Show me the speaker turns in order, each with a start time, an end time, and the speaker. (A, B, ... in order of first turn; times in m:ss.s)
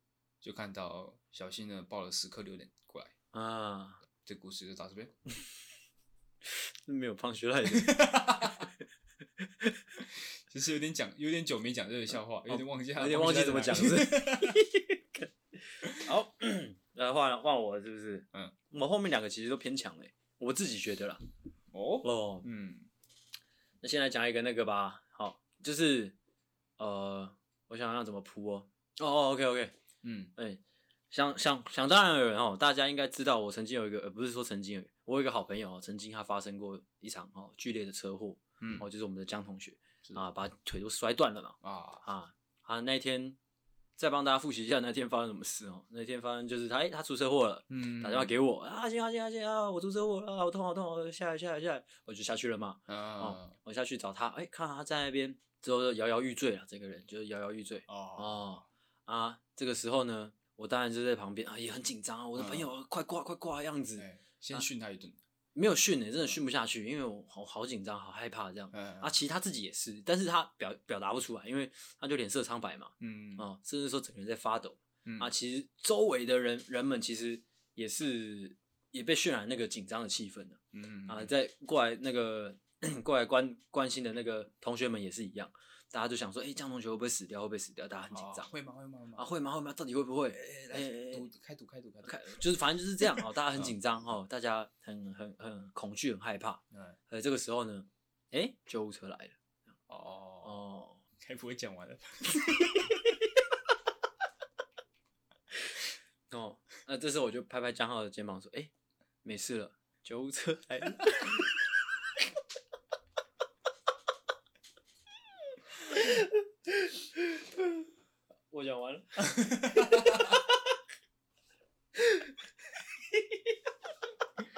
0:00.4-0:03.1 A
0:03.3-0:04.0 B
0:04.2-0:05.1 A
0:06.8-0:08.6 B
0:07.8-0:08.6 A
0:09.4-0:09.8 B
0:10.0-0:14.6 A
0:12.5-0:15.3 B
0:15.8-0:16.1 A
0:15.9-0:21.2 B
0:21.7-0:22.9 A
0:22.0-0:22.5 B
0:23.8-0:26.2 B
0:26.8-0:29.7 B
0:30.0-0:30.3 A
0:30.3-0:43.4 B
0:38.6-0:38.9 A
0:41.6-0:42.0 A
0:44.0-1:04.6 B
0:47.7-0:48.3 A
0:52.9-0:53.5 A
0:57.9-0:58.4 A
1:02.4-1:02.7 A
1:04.0-1:05.2 A
1:05.5-1:28.5 B
1:08.7-1:09.1 A
1:13.0-1:13.5 A
1:15.0-1:15.3 A
1:20.7-1:21.3 A
1:28.1-1:29.3 A
1:29.2-1:31.2 B
1:30.7-1:32.4 A
1:32.0-1:39.4 B
1:33.0-1:33.7 A
1:36.7-1:37.0 A
1:39.9-1:40.6 A
1:40.4-1:41.0 B
1:41.2-1:43.1 A
1:42.7-1:43.1 B
1:46.3-1:48.7 B
1:49.2-1:51.5 B
1:55.9-1:57.8 B
1:58.5-2:00.6 B
1:59.4-2:00.4 A